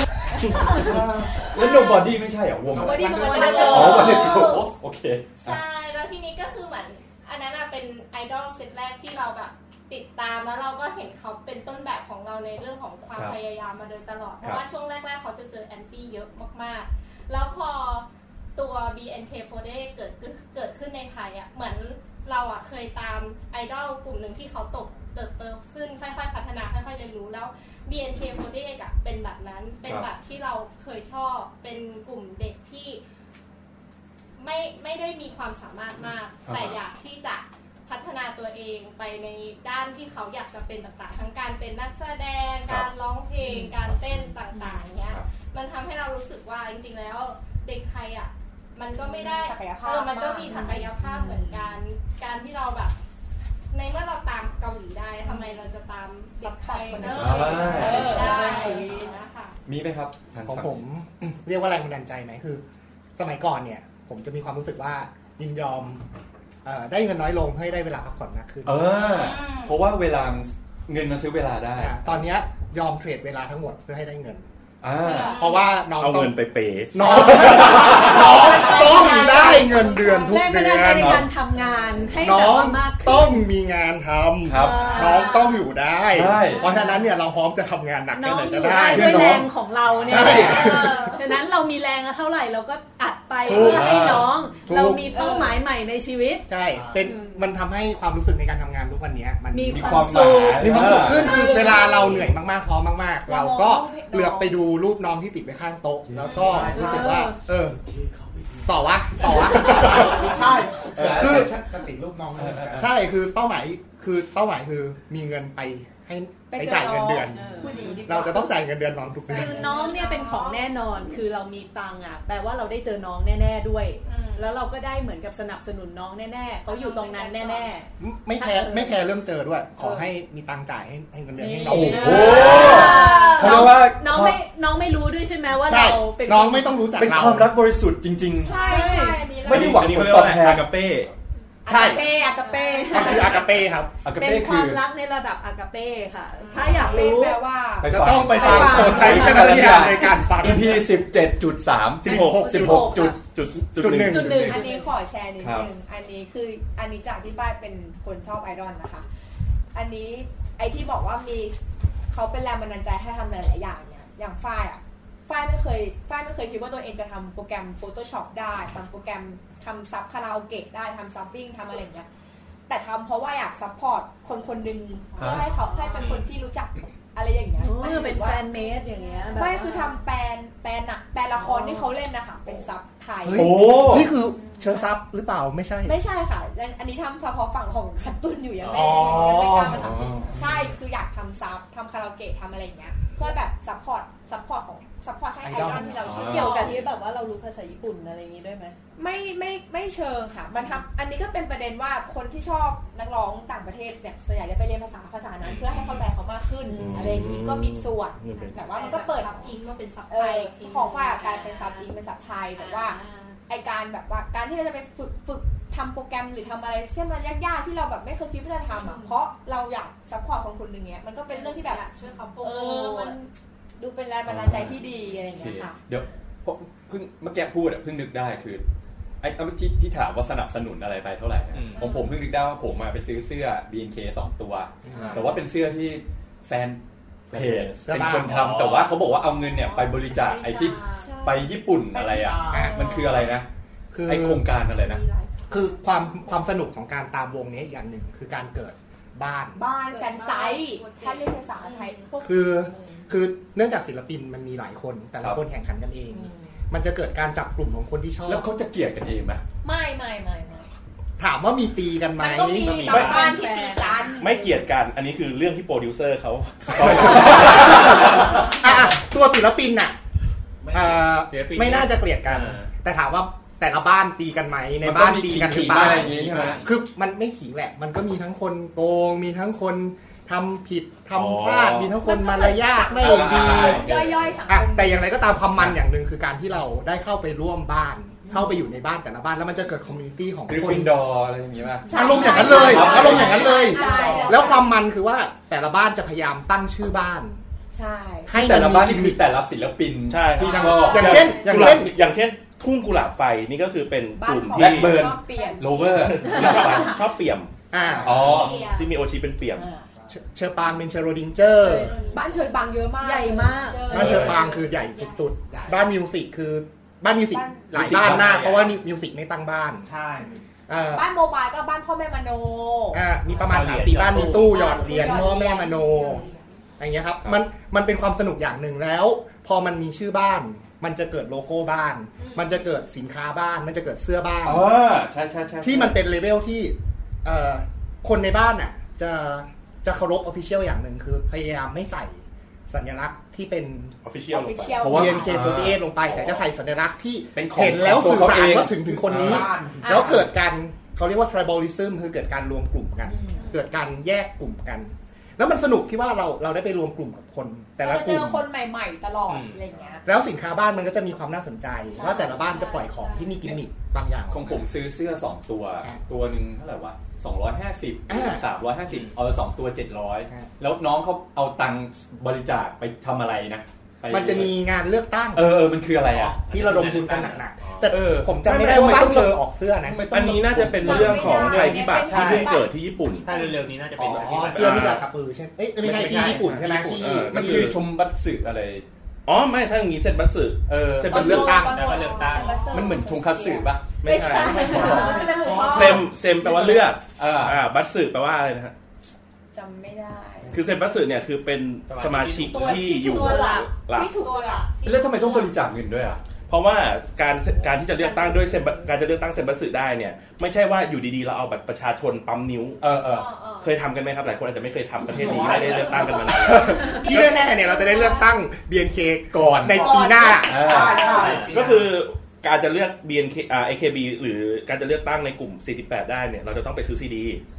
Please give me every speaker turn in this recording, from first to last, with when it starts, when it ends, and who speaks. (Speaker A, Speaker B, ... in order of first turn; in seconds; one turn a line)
Speaker A: 0.7-5.6
Speaker B: 0.7-1.6
Speaker C: 1.5-2.0
Speaker B: 2.7-4.5
Speaker C: 2.9-4.3
Speaker D: 2.9-4.5
Speaker E: 3.8-4.7
Speaker E: 5.4-33.0
Speaker E: 34.4-53.0
Speaker A: 36.5-36.8
Speaker C: 43.5-43.7
Speaker C: 49.0-51.8
Speaker E: 53.7-59.6
Speaker C: 55.2-55.7
Speaker C: 56.4-59.1
Speaker A: 57.1-58.4
Speaker D: 57.6-58.8
Speaker A: 59.7-60.8
Speaker F: 60.5-62.6
Speaker F: 63.2-66.0
Speaker F: 66.6-69.1
Speaker A: 68.7-72.2
Speaker E: 69.0-69.8
Speaker F: 71.8-74.5
Speaker A: 74.8-75.4
Speaker C: 75.0-75.4
Speaker E: 75.1-75.5
Speaker F: 75.2-81.3
Speaker G: 76.0-78.4
Speaker C: 77.2-80.1
Speaker B: 77.2-78.0
Speaker D: 79.2-83.5
Speaker A: 80.9-81.3
Speaker F: 82.2-89.5
Speaker A: 84.5-85.0
Speaker D: 84.5-85.6
Speaker A: 86.1-86.7
Speaker D: 86.4-87.0
Speaker D: 88.1-97.4
Speaker A: 88.8-90.8
Speaker F: 90.1-91.2
Speaker F: 93.4-95.2
Speaker A: 93.5-94.3
Speaker C: 95.1-95.6
Speaker F: 96.5-107.8
Speaker D: 99.5-101.8
Speaker A: 99.7-101.5
Speaker C: 101.3-102.1
Speaker C: 103.3-104.6
Speaker A: 106.1-106.7
Speaker B: 106.4-107.3
Speaker D: 106.6-107.3
Speaker F: 108.7-110.4
Speaker B: 109.4-112.9
Speaker A: 110.9-111.5
Speaker F: 111.1-111.6
Speaker A: 112.4-112.8
Speaker F: 112.8-119.8
Speaker C: 116.5-118.5
Speaker D: 117.3-118.1
Speaker E: 117.6-118.0
Speaker D: 119.3-129.0
Speaker C: 119.3-120.7
Speaker E: 124.1-124.5
Speaker E: 126.7-127.7
Speaker F: 128.0-132.6
Speaker D: 131.4-136.9
Speaker A: 131.6-134.4
Speaker C: 132.1-133.2
Speaker E: 132.2-133.7
Speaker F: 135.6-137.6
Speaker A: 137.0-138.6
Speaker C: 138.4-139.8
Speaker D: 138.4-139.3
Speaker A: 139.4-140.9
Speaker G: 139.5-141.1
Speaker F: 141.7-142.2
Speaker C: 141.7-143.4
Speaker D: 142.3-143.4
Speaker F: 142.9-144.0
Speaker A: 144.0-144.8
Speaker D: 144.1-147.4
Speaker C: 146.4-148.7
Speaker A: 147.8-153.2
Speaker F: 147.9-150.9
Speaker D: 148.1-150.2
Speaker F: 152.0-154.6
Speaker G: 152.0-154.6
Speaker D: 152.1-153.2
Speaker D: 153.9-154.9
Speaker C: 154.4-159.1
Speaker A: 155.4-155.7
Speaker C: 159.7-161.6
Speaker C: 162.1-172.1
Speaker C: 172.7-183.9
Speaker A: 175.2-175.5
Speaker D: 175.2-176.3
Speaker D: 177.6-180.0
Speaker E: 178.9-179.2
Speaker D: 181.3-181.9
Speaker F: 183.2-186.0
Speaker A: 183.3-184.1
Speaker C: 185.8-196.7
Speaker H: 188.6-189.3
Speaker F: 188.7-189.8
Speaker A: 189.0-190.3
Speaker F: 195.4-196.1
Speaker D: 195.6-198.8
Speaker A: 196.0-196.7
Speaker C: 199.0-209.6
Speaker H: 205.4-205.9
Speaker G: 206.7-208.6
Speaker E: 208.3-211.9
Speaker D: 208.8-209.2
Speaker C: 210.1-221.8
Speaker D: 212.6-213.3
Speaker E: 212.7-213.3
Speaker E: 218.8-219.1
Speaker E: 221.3-223.2
Speaker C: 222.4-225.8
Speaker A: 224.3-228.6
Speaker A: 229.2-243.5
Speaker H: 231.5-231.9
Speaker F: 234.9-235.2
Speaker H: 234.9-235.2
Speaker G: 237.3-237.9
Speaker F: 237.8-238.6
Speaker H: 238.3-239.1
Speaker D: 239.4-241.4
Speaker C: 241.0-241.5
Speaker B: 241.9-242.8
Speaker F: 242.5-242.8
Speaker C: 242.7-243.2
Speaker F: 243.9-244.5
Speaker A: 244.1-245.0
Speaker D: 244.8-245.5
Speaker F: 245.5-249.6
Speaker C: 249.6-252.9
Speaker D: 249.9-251.4
Speaker F: 252.2-258.5
Speaker C: 256.1-256.6
Speaker A: 258.3-259.4
Speaker C: 259.6-260.7
Speaker F: 261.2-262.8
Speaker C: 262.2-264.3
Speaker H: 262.6-263.1
Speaker D: 262.8-264.7
Speaker G: 262.9-263.2
Speaker G: 264.2-268.2
Speaker A: 266.7-268.5
Speaker F: 266.8-270.0
Speaker B: 270.6-271.1
Speaker F: 270.7-283.9
Speaker H: 271.3-272.7
Speaker A: 274.8-276.7
Speaker H: 276.0-276.6
Speaker G: 281.1-281.9
Speaker C: 282.0-285.1
Speaker A: 283.0-284.2
Speaker F: 284.5-291.0
Speaker A: 290.5-293.5
Speaker C: 291.9-294.8
Speaker F: 291.9-297.4
Speaker B: 292.5-293.1
Speaker B: 293.7-294.4
Speaker D: 294.0-294.3
Speaker C: 297.7-298.3
Speaker F: 298.3-299.2
Speaker A: 298.3-301.9
Speaker G: 300.1-305.1
Speaker F: 300.4-301.9
Speaker C: 300.6-300.9
Speaker C: 304.2-306.9
Speaker A: 304.5-307.0
Speaker G: 305.9-307.5
Speaker F: 307.7-308.6
Speaker C: 307.8-308.6
Speaker A: 308.0-308.7
Speaker E: 308.1-308.9
Speaker G: 308.5-309.7
Speaker C: 309.6-309.9
Speaker F: 310.1-312.0
Speaker E: 311.6-312.6
Speaker C: 312.1-314.4
Speaker D: 312.9-314.0
Speaker E: 313.7-315.6
Speaker F: 313.9-319.9
Speaker A: 313.9-314.4
Speaker C: 317.3-317.7
Speaker A: 317.7-318.8
Speaker B: 319.8-320.4
Speaker F: 320.7-321.1
Speaker C: 320.9-323.0
Speaker F: 322.9-326.3
Speaker H: 323.4-324.6
Speaker C: 324.1-326.4
Speaker F: 326.8-334.8
Speaker A: 334.4-336.0
Speaker F: 335.6-343.9
Speaker G: 344.0-344.9
Speaker C: 344.3-345.4
Speaker A: 344.8-346.4
Speaker F: 344.8-358.5
Speaker A: 347.4-349.4
Speaker B: 348.7-350.2
Speaker C: 349.8-350.2
Speaker C: 353.1-353.5
Speaker C: 357.8-360.0
Speaker H: 359.3-359.6
Speaker F: 360.1-364.7
Speaker C: 361.9-362.6
Speaker D: 362.4-363.1
Speaker A: 364.3-374.6
Speaker F: 368.1-368.4
Speaker H: 368.9-369.2
Speaker F: 374.1-380.1
Speaker A: 375.3-377.0
Speaker H: 376.4-377.9
Speaker A: 377.9-382.5
Speaker G: 380.1-383.5
Speaker C: 380.8-382.7
Speaker H: 383.2-385.0
Speaker F: 383.9-387.6
Speaker G: 384.5-385.1
Speaker A: 385.8-388.9
Speaker H: 386.2-386.5
Speaker G: 386.3-387.8
Speaker G: 389.3-391.6
Speaker A: 390.7-391.7
Speaker F: 391.1-392.1
Speaker C: 391.1-396.1
Speaker H: 391.6-392.7
Speaker A: 392.6-395.2
Speaker G: 394.0-395.0
Speaker B: 394.6-396.8
Speaker D: 394.6-395.5
Speaker G: 395.6-398.7
Speaker A: 397.0-397.6
Speaker C: 399.5-400.5
Speaker G: 400.5-404.1
Speaker H: 401.9-402.7
Speaker C: 402.5-404.7
Speaker D: 402.6-405.4
Speaker E: 404.6-405.4
Speaker A: 404.8-406.2
Speaker G: 406.5-412.9
Speaker D: 407.9-409.0
Speaker A: 412.8-413.3
Speaker G: 413.6-417.4
Speaker B: 415.1-416.1
Speaker D: 415.4-417.3
Speaker F: 416.4-421.2
Speaker E: 417.3-417.6
Speaker A: 419.3-421.1
Speaker B: 419.6-422.0
Speaker C: 419.9-420.4
Speaker H: 421.1-421.6
Speaker G: 421.4-427.4